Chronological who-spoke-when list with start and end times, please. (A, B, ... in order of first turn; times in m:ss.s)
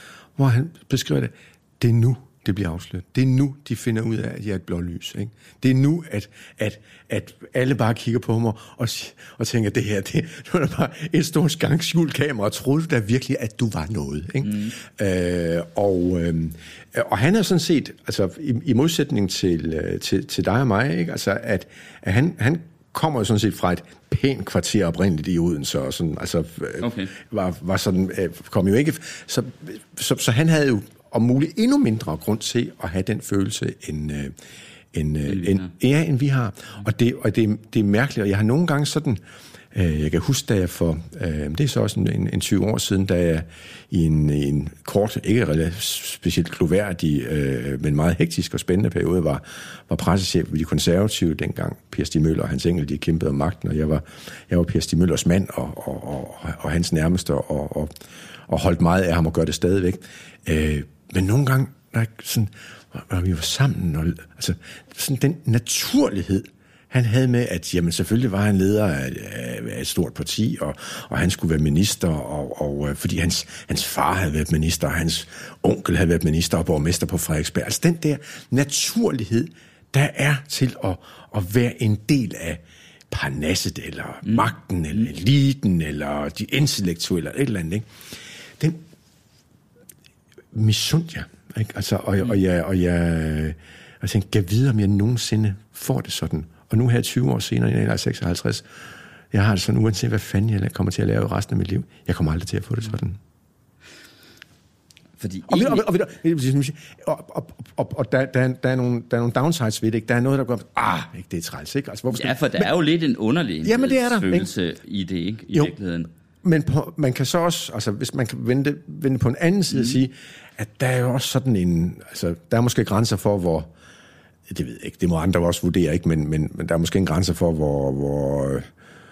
0:00.4-0:34.3 A
0:14.4-0:14.7 B
0:26.8-0:27.1 B
0:34.9-0:39.2 A
0:35.3-0:35.7 B
0:39.7-0:57.9 A
0:58.5-1:27.9 A
1:30.5-1:38.6 A
1:39.3-1:43.2 A
1:45.2-1:45.8 B
1:45.5-1:52.7 A
1:52.1-1:56.1 B
1:53.6-1:54.5 A
1:56.4-2:03.7 A
2:04.5-2:08.7 A